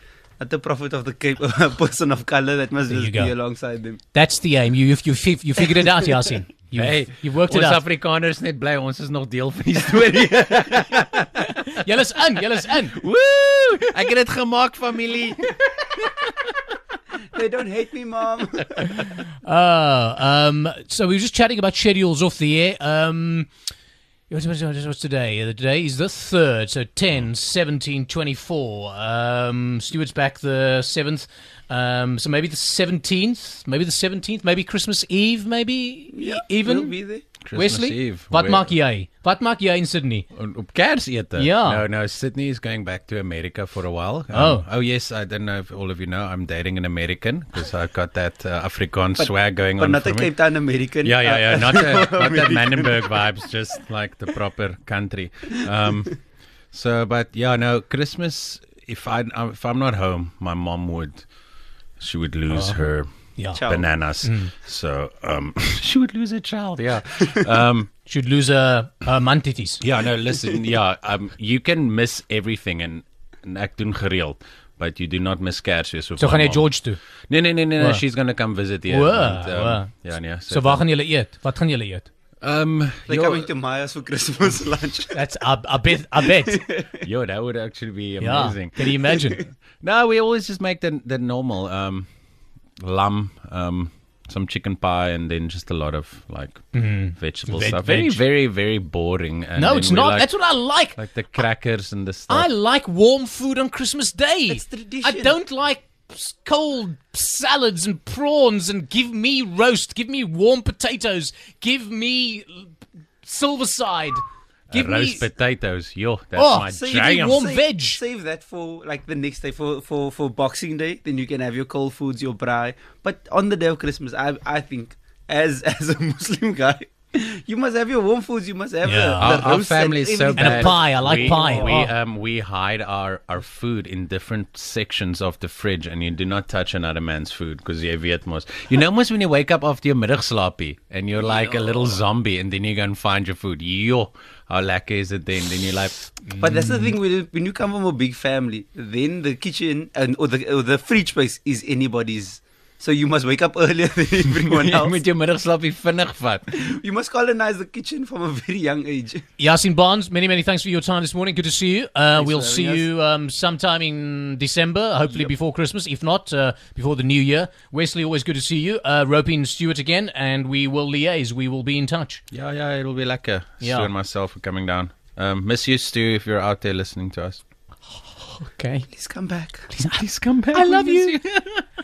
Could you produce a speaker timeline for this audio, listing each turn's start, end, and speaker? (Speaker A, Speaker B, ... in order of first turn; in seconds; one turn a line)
Speaker A: 0.4-4.0
Speaker B: 2.9-3.3
Speaker B: 4.1-7.8
Speaker A: 5.7-6.2
Speaker C: 6.7-11.8
Speaker B: 11.7-13.0
Speaker C: 12.9-16.5
Speaker A: 17.3-18.9
Speaker B: 18.9-23.5
Speaker B: 24.3-37.0
Speaker A: 36.1-37.2
Speaker C: 37.5-38.7
Speaker B: 37.5-40.3
Speaker C: 40.3-50.3
Speaker B: 41.4-41.8
Speaker B: 44.3-44.6
Speaker A: 49.2-53.2
Speaker C: 51.0-56.2
Speaker C: 56.7-61.3
Speaker C: 62.0-67.9
Speaker B: 62.5-62.8
Speaker B: 63.4-63.6
Speaker A: 63.5-63.9
Speaker B: 64.2-64.5
Speaker B: 68.1-69.8
Speaker C: 69.8-76.7
Speaker B: 76.2-77.0
Speaker C: 77.3-80.9
Speaker B: 78.9-79.9
Speaker B: 80.5-82.1
Speaker C: 82.4-83.5
Speaker A: 83.1-85.2
Speaker B: 85.1-86.6
Speaker A: 86.1-87.0
Speaker C: 87.0-89.0
Speaker B: 88.2-89.4
Speaker A: 89.1-89.4
Speaker C: 89.8-92.1
Speaker C: 92.8-100.3
Speaker B: 96.7-98.2
Speaker B: 99.6-101.0
Speaker C: 101.0-102.5
Speaker B: 102.3-115.3
Speaker A: 104.5-105.4
Speaker C: 114.7-117.4
Speaker B: 116.4-118.0
Speaker A: 116.7-131.9
Speaker B: 128.8-129.4
Speaker C: 129.2-146.1
Speaker B: 130.4-131.9
Speaker A: 141.2-141.7
Speaker B: 146.3-146.9
Speaker A: 146.4-155.0
Speaker C: 154.4-156.6
Speaker A: 156.6-159.2
Speaker B: 159.4-172.2
Speaker A: 162.2-162.9
Speaker C: 172.3-177.4
Speaker B: 173.6-173.9
Speaker B: 178.4-178.9
Speaker A: 178.9-179.7
Speaker B: 179.7-181.2
Speaker C: 179.8-181.6